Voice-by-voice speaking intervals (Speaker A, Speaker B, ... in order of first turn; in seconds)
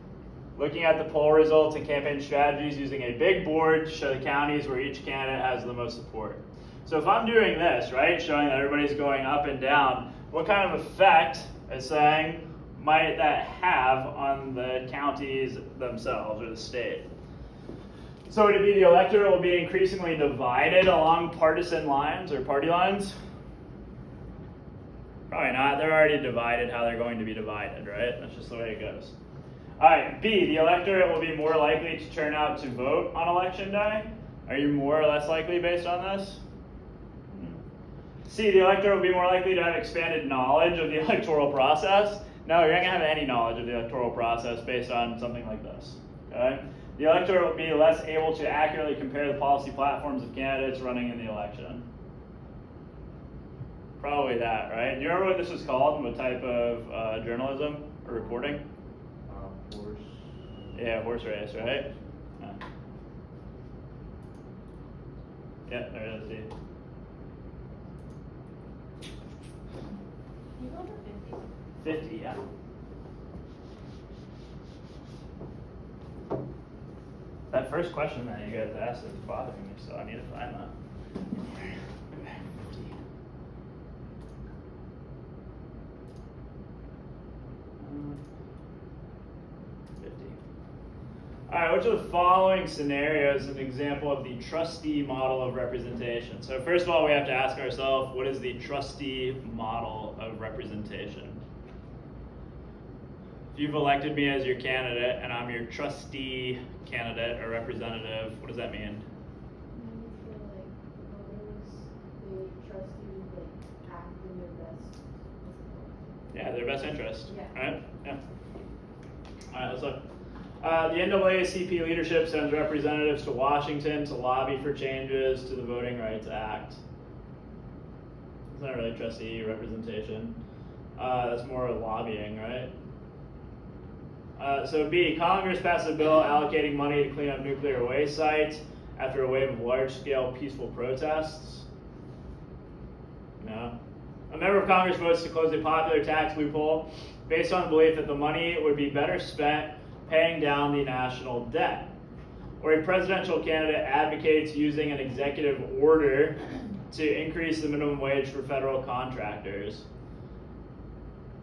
Speaker A: 0.6-17.0, 18.3-23.1, 25.3-29.1, 29.8-36.4, 37.3-37.6, 38.2-51.8, 54.0-58.6, 60.7-61.9, 65.7-66.5, 71.8-72.4, 77.5-80.7, 81.5-82.9, 87.8-88.2, 90.0-90.3, 91.5-101.4, 103.5-109.0, 116.3-118.2, 119.5-120.0, 120.6-126.8, 128.5-130.3, 131.0-132.7, 134.4-141.6, 143.4-143.7, 144.3-151.9, 152.6-156.4, 156.9-159.8
Speaker B: 59.3-61.0, 61.6-62.0
Speaker C: 70.5-71.5, 109.7-116.3, 117.3-117.5